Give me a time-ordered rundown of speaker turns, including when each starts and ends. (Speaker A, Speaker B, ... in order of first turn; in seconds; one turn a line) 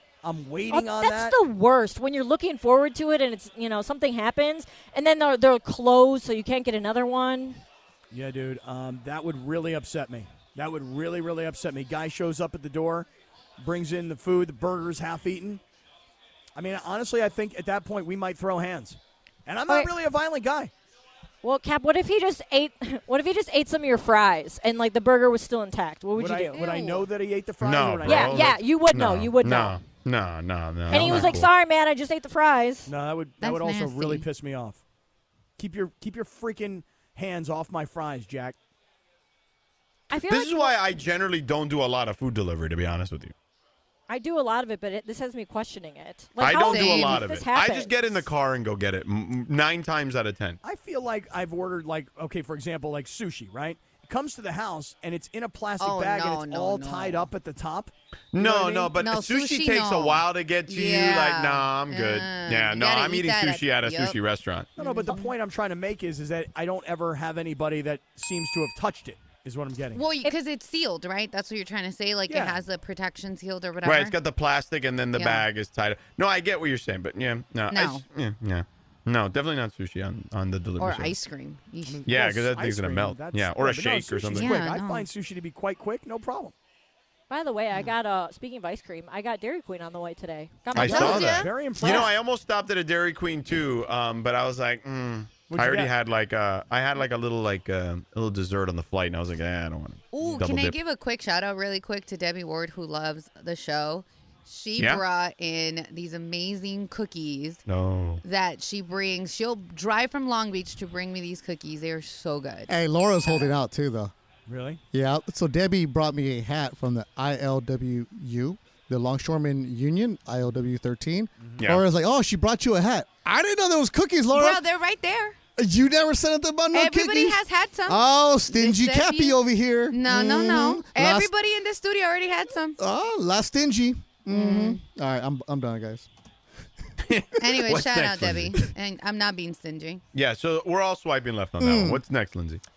Speaker A: 0.2-1.4
Speaker B: 0.7-7.6
Speaker A: 8.1-13.1
Speaker A: 13.6-15.6
Speaker A: 16.5-20.7
Speaker B: 21.4-26.6
Speaker A: 26.1-28.6
Speaker C: 26.5-27.1
Speaker D: 27.6-31.5
Speaker B: 28.1-29.8
Speaker B: 30.9-32.9
Speaker A: 30.9-31.4
Speaker A: 32.9-34.8
Speaker C: 33.4-34.2
Speaker A: 35.6-38.5
Speaker B: 40.1-40.8
Speaker D: 40.2-43.3
Speaker B: 44.1-48.2
Speaker D: 46.4-50.6
Speaker C: 46.5-47.2
Speaker A: 50.6-58.9
Speaker C: 55.8-57.3
Speaker D: 58.3-64.7
Speaker C: 58.9-64.2
Speaker A: 64.8-70.0
Speaker C: 64.8-65.3
Speaker C: 69.9-74.2
Speaker A: 72.3-72.6
Speaker D: 73.8-81.1
Speaker C: 75.2-75.5
Speaker C: 77.7-78.0
Speaker C: 80.8-82.0
Speaker A: 81.8-86.5
Speaker D: 82.0-84.6
Speaker C: 84.3-85.1
Speaker B: 87.3-91.4
Speaker C: 90.7-92.1
Speaker D: 90.7-100.8
Speaker A: 90.8-92.1
Speaker A: 95.5-95.9
Speaker C: 100.1-107.6
Speaker D: 107.7-108.2
Speaker C: 108.2-113.5
Speaker E: 112.7-114.1
Speaker A: 114.5-114.8
Speaker E: 114.9-124.6
Speaker A: 121.4-121.7
Speaker C: 124.3-125.4
Speaker E: 125.6-131.3
Speaker C: 126.7-129.4
Speaker C: 129.9-132.8
Speaker E: 132.8-136.1
Speaker C: 134.3-134.8
Speaker D: 137.0-138.7
Speaker C: 137.4-140.0
Speaker D: 140.1-142.6
Speaker E: 141.6-142.0